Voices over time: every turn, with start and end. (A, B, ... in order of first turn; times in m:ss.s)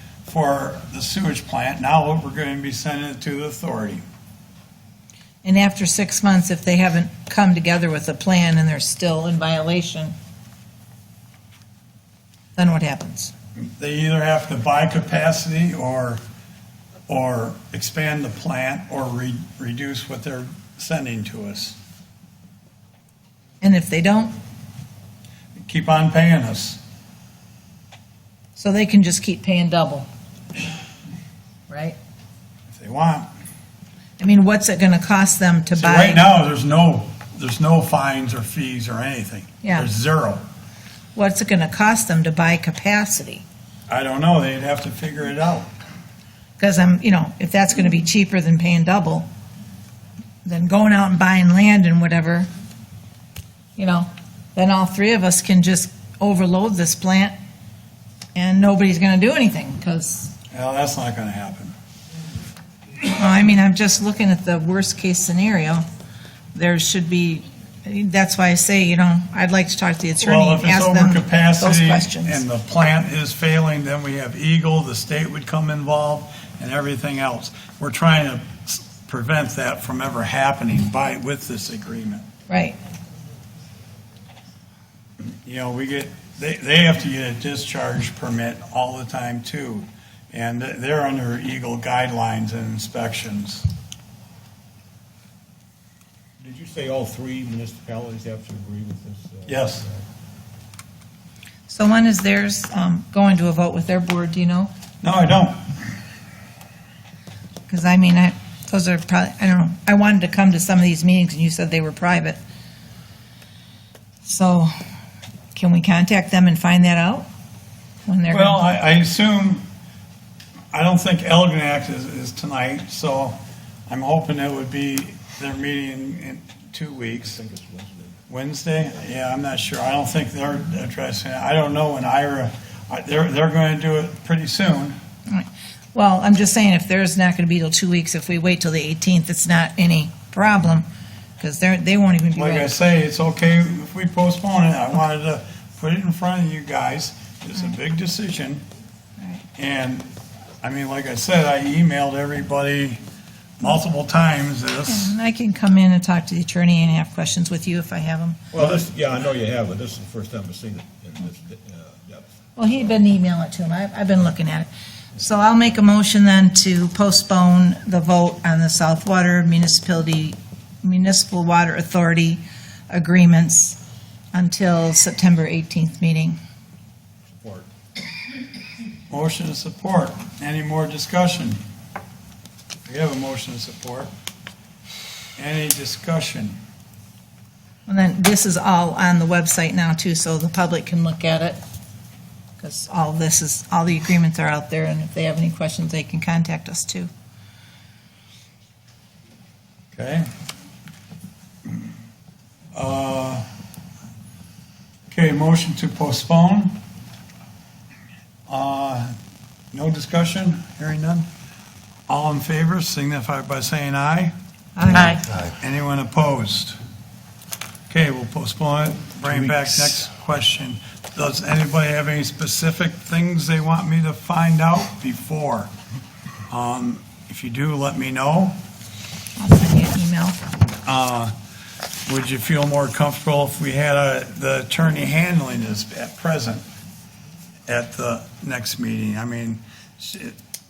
0:00.2-0:04.0 A
0:05.4-0:10.1 B
0:12.6-0:13.3 B
0:13.6-0:16.2 A
0:17.1-0:21.8 A
0:23.6-0:24.3 B
0:25.6-0:26.8 A
0:28.6-0:30.1 B
0:31.7-0:32.0 B
0:32.7-0:33.3 A
0:34.2-0:36.2 B
0:35.7-0:40.4 A
0:39.6-0:39.9 B
0:41.2-0:43.4 B
0:43.9-0:45.7 A
0:46.6-0:49.3 B
0:50.4-0:52.5 B
0:53.8-0:57.3 B
0:58.3-1:00.3 B
1:00.5-1:01.7 A
1:03.0-1:05.8 B
1:06.5-1:12.4 B
1:10.2-1:22.3 A
1:22.5-1:22.8 B
1:25.2-1:33.7 A
1:36.4-1:39.8 C
1:39.5-1:39.8 A
1:41.7-1:44.7 B
1:45.0-1:45.7 A
1:47.7-1:52.4 B
1:54.2-1:54.7 B
1:55.5-1:57.2 B
1:58.0-1:58.6 B
1:58.3-1:59.6 A
2:00.7-2:03.4 A
2:03.9-2:07.4 A
2:07.4-2:08.0 C
2:08.3-2:15.0 A
2:15.3-2:20.8 B
2:21.4-2:22.7 B
2:22.3-2:28.6 A
2:29.6-2:30.1 A
2:30.6-2:33.0 A
2:33.6-2:35.1 A
2:34.9-2:38.4 B
2:38.5-2:42.3 C
2:42.6-2:53.8 B
2:54.3-2:56.4 B
2:57.3-2:57.7 C
2:59.1-3:01.6 A
3:02.8-3:04.1 A
3:05.4-3:06.6 A
3:07.9-3:11.6 B
3:12.6-3:17.1 B
3:19.9-3:20.3 A
3:22.7-3:23.4 A
3:25.1-3:26.8 A
3:28.5-3:29.1 A
3:29.7-3:31.3 A
3:32.1-3:36.8 A
3:34.8-3:35.2 B
3:37.9-3:45.7 A
3:46.5-3:48.6 A
3:49.4-3:50.4 B
3:50.8-3:51.3 A
3:52.0-3:56.6 A
3:57.7-4:00.4 A